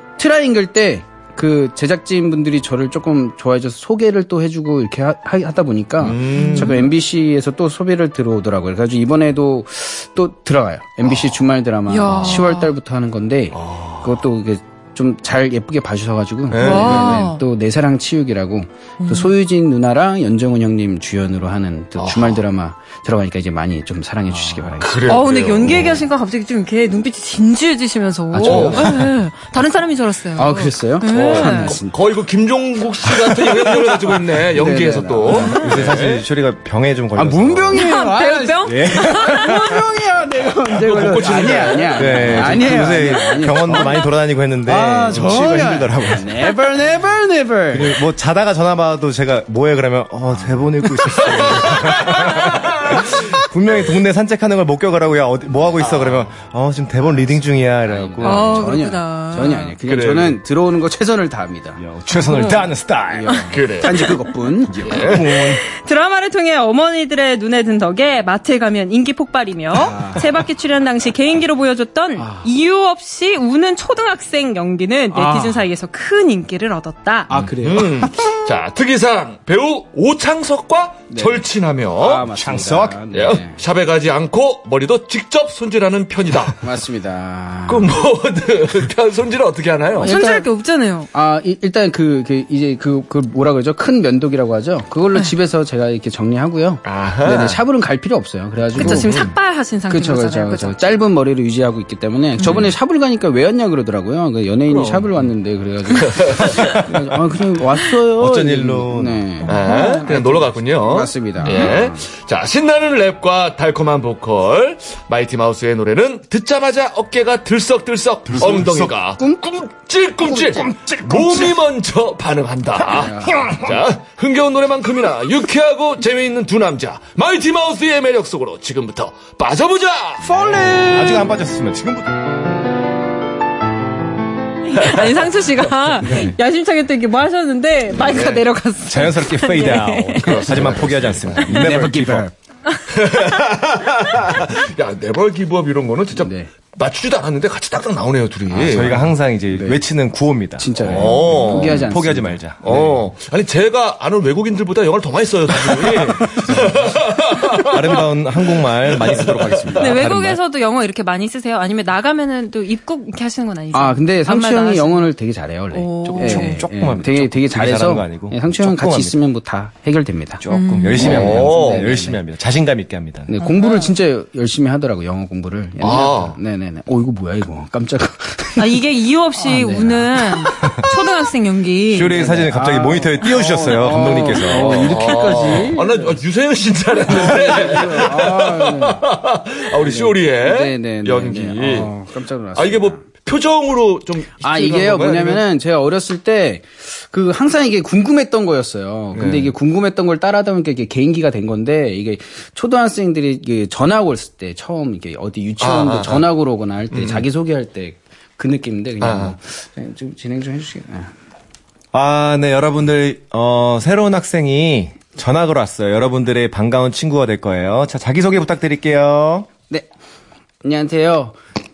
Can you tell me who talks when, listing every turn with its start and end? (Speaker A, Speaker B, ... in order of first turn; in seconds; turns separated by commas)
Speaker A: 0.2-25.2, Speaker B: 6.0-6.8, Speaker C: 6.4-6.8, Speaker C: 11.9-12.7, Speaker B: 13.5-14.2, Speaker B: 16.5-17.3, Speaker C: 16.6-17.4, Speaker C: 19.0-19.3, Speaker B: 22.0-22.4, Speaker B: 24.7-26.0, Speaker C: 25.1-31.8, Speaker A: 28.3-29.1, Speaker B: 28.4-29.0, Speaker A: 30.4-31.9, Speaker B: 31.1-36.2, Speaker A: 33.2-35.8, Speaker C: 35.3-35.7, Speaker D: 35.5-38.0, Speaker A: 37.1-44.0, Speaker C: 37.7-39.8, Speaker D: 38.6-39.7, Speaker B: 40.6-42.8, Speaker D: 41.9-46.7, Speaker A: 44.6-48.0, Speaker D: 47.7-58.9, Speaker B: 51.1-53.1, Speaker B: 55.8-56.3, Speaker A: 57.8-61.8, Speaker C: 58.2-59.8, Speaker B: 59.8-60.4, Speaker D: 61.8-63.4, Speaker C: 62.3-62.7, Speaker A: 63.1-65.0, Speaker C: 63.3-64.2, Speaker B: 63.5-64.2, Speaker D: 64.7-65.6, Speaker B: 64.8-65.3, Speaker C: 65.4-77.3, Speaker A: 69.7-70.3, Speaker A: 72.2-72.5, Speaker A: 75.1-75.7, Speaker A: 77.3-78.4, Speaker B: 77.6-82.3, Speaker A: 81.1-81.4, Speaker A: 82.0-83.6, Speaker D: 82.3-83.0, Speaker B: 83.1-86.6, Speaker A: 86.6-87.9, Speaker B: 87.7-90.1, Speaker A: 90.0-90.5, Speaker C: 90.0-91.1, Speaker A: 91.1-99.3, Speaker B: 96.8-97.6, Speaker C: 98.7-101.0, Speaker B: 98.8-99.3, Speaker A: 99.9-112.0, Speaker C: 102.4-102.6, Speaker B: 102.4-102.7, Speaker B: 104.7-105.2, Speaker B: 106.0-106.5, Speaker D: 108.1-109.2, Speaker C: 109.4-110.0, Speaker B: 109.5-130.3, Speaker C: 111.4-111.7, Speaker D: 118.3-118.9, Speaker A: 118.4-118.6, Speaker A: 119.2-119.4, Speaker D: 120.3-121.6, Speaker A: 122.9-123.5, Speaker D: 123.3-123.7, Speaker A: 130.2-131.2, Speaker D: 130.3-132.1, Speaker C: 134.7-140.5, Speaker B: 137.9-138.4, Speaker D: 138.8-142.3, Speaker B: 140.2-141.5, Speaker A: 141.4-142.3, Speaker B: 142.9-149.0, Speaker A: 146.2-146.5, Speaker A: 148.5-149.8, Speaker D: 148.6-152.9, Speaker A: 150.6-152.9, Speaker B: 150.8-151.9, Speaker B: 152.6-158.0, Speaker A: 155.7-156.3, Speaker D: 156.3-160.4, Speaker B: 159.0-159.8, Speaker C: 159.8-165.1, Speaker A: 163.7-170.4, Speaker C: 165.7-166.7, Speaker D: 166.0-169.2, Speaker D: 170.4-173.3, Speaker C: 170.5-171.2, Speaker A: 170.9-172.2, Speaker B: 171.0-171.9, Speaker A: 173.3-178.8, Speaker C: 173.4-173.9, Speaker B: 175.8-176.4, Speaker C: 178.6-182.2, Speaker A: 179.4-180.8, Speaker D: 181.9-185.1, Speaker A: 182.1-186.2, Speaker B: 184.5-191.9, Speaker A: 187.0-189.0, Speaker A: 189.7-193.0, Speaker B: 192.5-195.4, Speaker A: 194.4-211.1, Speaker B: 199.1-199.5, Speaker B: 205.6-206.3, Speaker B: 206.9-207.3, Speaker B: 209.0-209.3, Speaker D: 211.9-219.5, Speaker A: 220.6-221.4